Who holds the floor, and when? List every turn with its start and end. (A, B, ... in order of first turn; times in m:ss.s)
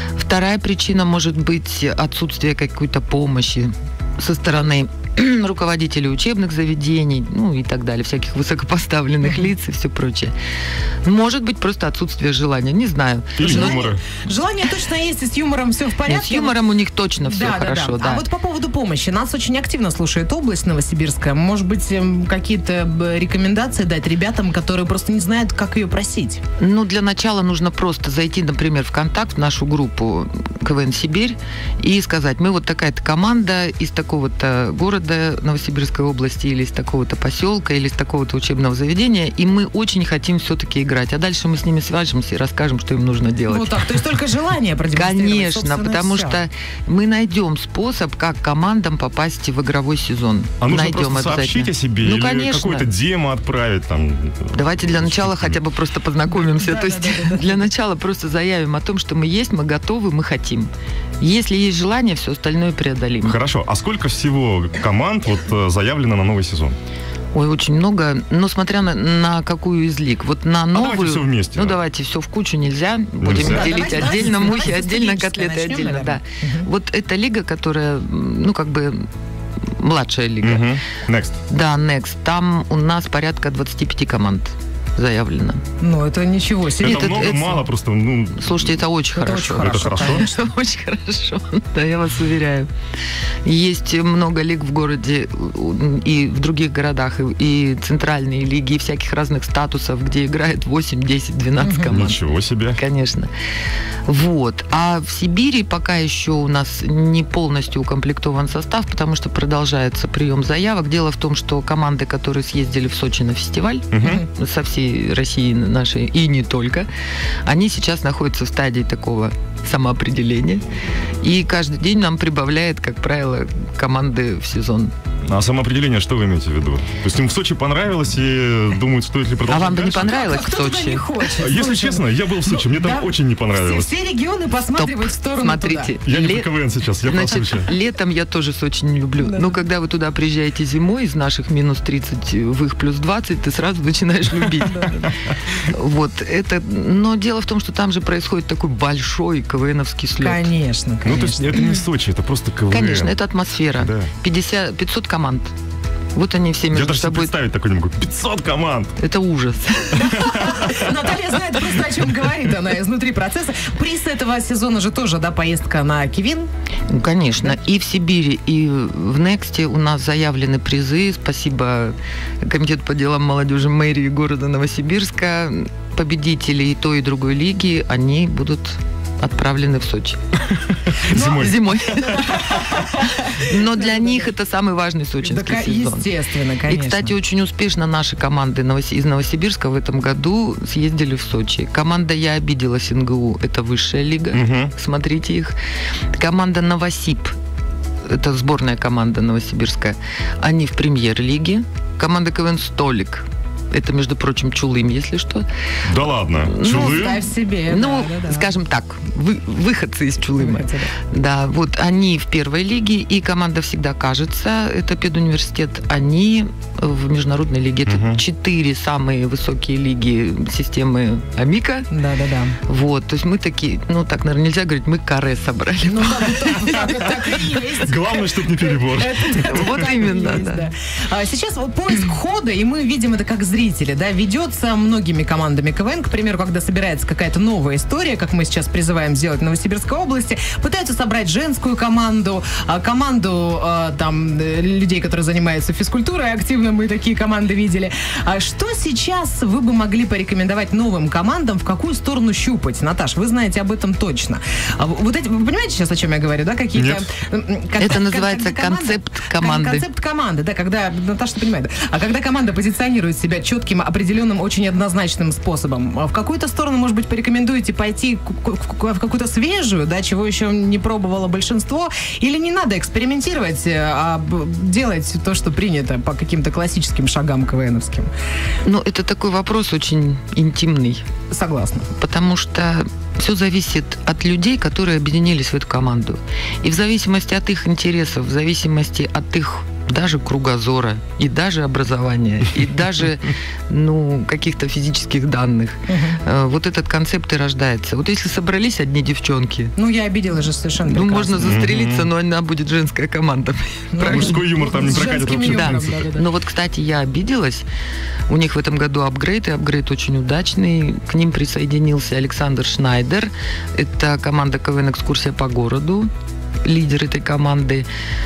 0:00.2-0:10.3 A
0:11.0-0:13.8 A
0:13.4-0:14.0 B
0:13.4-0:16.6 C
0:16.1-0:18.2 A
0:17.2-0:26.4 C
0:26.6-0:43.7 A
0:43.5-0:46.4 C
0:44.9-0:52.9 A
0:50.6-0:55.6 B
0:54.5-1:03.4 A
0:56.3-0:57.6 C
1:03.2-1:06.8 B
1:07.3-1:19.1 A
1:10.7-1:11.8 B
1:13.2-1:13.9 B
1:13.3-1:16.7 C
1:19.8-1:20.7 A
1:20.4-1:21.4 B
1:21.5-1:25.6 A
1:25.8-1:27.4 C
1:26.8-1:28.9 B
1:26.8-1:27.6 A
1:28.4-1:32.7 A
1:29.2-1:30.3 C
1:29.6-1:30.2 B
1:33.4-1:42.2 A
1:41.6-1:41.9 C
1:41.9-1:42.8 B
1:42.7-1:43.3 A
1:44.1-1:56.9 A
1:53.9-1:54.2 B
1:57.4-2:00.6 A
2:01.2-2:04.9 A
2:05.3-2:10.1 B
2:09.5-2:11.1 A
2:09.9-2:16.0 C
2:11.4-2:13.9 B
2:14.8-2:16.5 A
2:16.0-2:17.7 B
2:17.0-2:30.5 A
2:19.2-2:19.6 C
2:24.6-2:25.1 C
2:30.2-2:31.8 C
2:31.0-2:33.1 B
2:32.7-2:35.5 A
2:33.8-2:34.1 B
2:36.1-2:37.3 A
2:36.7-2:39.0 B
2:39.0-2:40.2 A
2:39.9-2:46.5 C
2:46.9-3:00.2 A
3:00.7-3:02.4 B
3:01.1-3:04.2 C
3:01.2-3:06.1 A
3:05.2-3:07.2 C
3:06.7-3:15.6 A
3:14.3-3:14.7 B
3:16.1-3:17.3 A
3:18.1-3:25.5 A
3:25.8-3:27.2 B
3:26.5-3:41.9 A
3:26.6-3:28.5 C
3:30.4-3:30.9 C
3:37.9-3:38.2 B
3:41.9-3:42.6 C
3:42.7-3:47.4 A
3:45.8-4:38.1 C
3:47.8-3:49.9 B
3:49.3-3:50.7 A
4:16.8-4:17.1 B
4:17.8-4:19.8 A
4:38.6-4:41.0 A
4:41.3-4:41.9 C
4:42.0-4:59.7 A
4:55.9-4:56.2 C
4:59.8-5:01.6 C
5:00.9-5:07.7 A
5:01.4-5:02.1 B
5:03.9-5:06.3 C
5:04.0-5:06.0 B
5:08.3-5:16.1 A
5:16.6-5:17.9 A